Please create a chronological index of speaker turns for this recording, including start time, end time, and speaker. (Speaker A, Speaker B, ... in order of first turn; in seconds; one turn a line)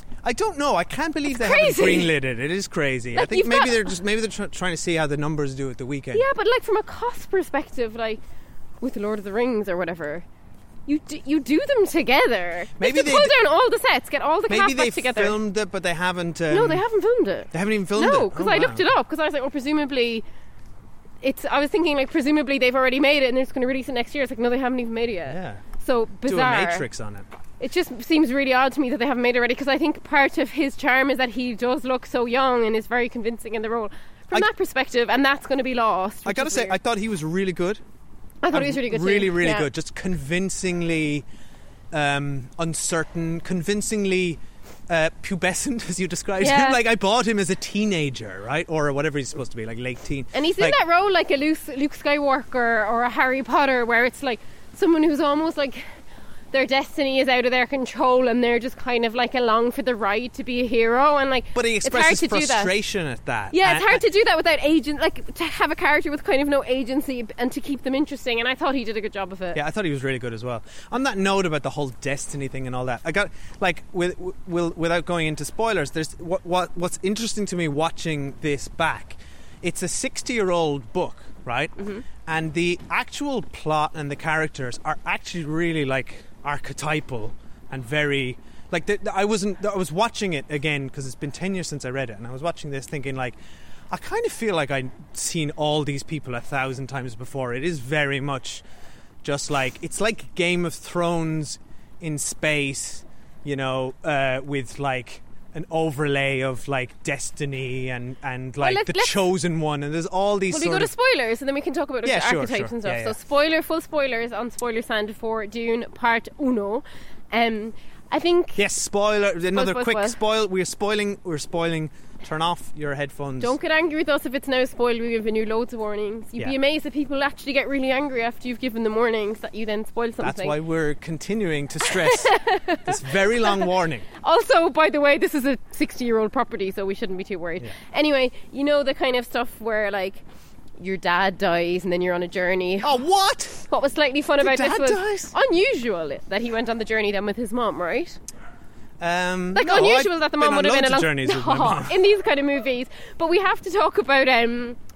Speaker A: 0.2-6.2
Speaker B: 1.3-2.1
Speaker B: 3.1-3.9
Speaker B: 6.1-8.2
Speaker B: 8.8-10.3
Speaker B: 10.9-15.4
Speaker A: 12.8-13.3
Speaker A: 14.5-16.8
Speaker B: 16.5-20.2
Speaker A: 17.5-18.9
Speaker B: 21.2-26.9
Speaker A: 25.3-25.6
Speaker A: 26.2-27.3
Speaker B: 27.6-36.8
Speaker A: 36.2-37.8
Speaker B: 38.4-39.7
Speaker A: 38.5-41.3
Speaker A: 41.9-50.8
Speaker B: 46.4-46.8
Speaker B: 50.3-55.9
Speaker B: 56.5-62.7
Speaker A: 61.5-64.0
Speaker B: 63.5-69.6
Speaker A: 69.5-93.4
Speaker B: 81.8-82.0
Speaker A: 93.9-98.6
Speaker A: 99.2-110.9
Speaker B: 108.6-109.2
Speaker B: 110.5-118.6
Speaker A: 112.0-113.2
Speaker A: 118.6-123.5
Speaker B: 119.5-120.2
Speaker B: 123.4-130.6
Speaker A: 130.2-134.1
Speaker B: 132.0-133.0
Speaker B: 134.2-140.2
Speaker B: 140.8-142.9
Speaker A: 142.8-143.7
Speaker B: 143.7-148.2
Speaker A: 144.4-145.3
Speaker A: 149.0-152.0
Speaker B: 149.6-154.8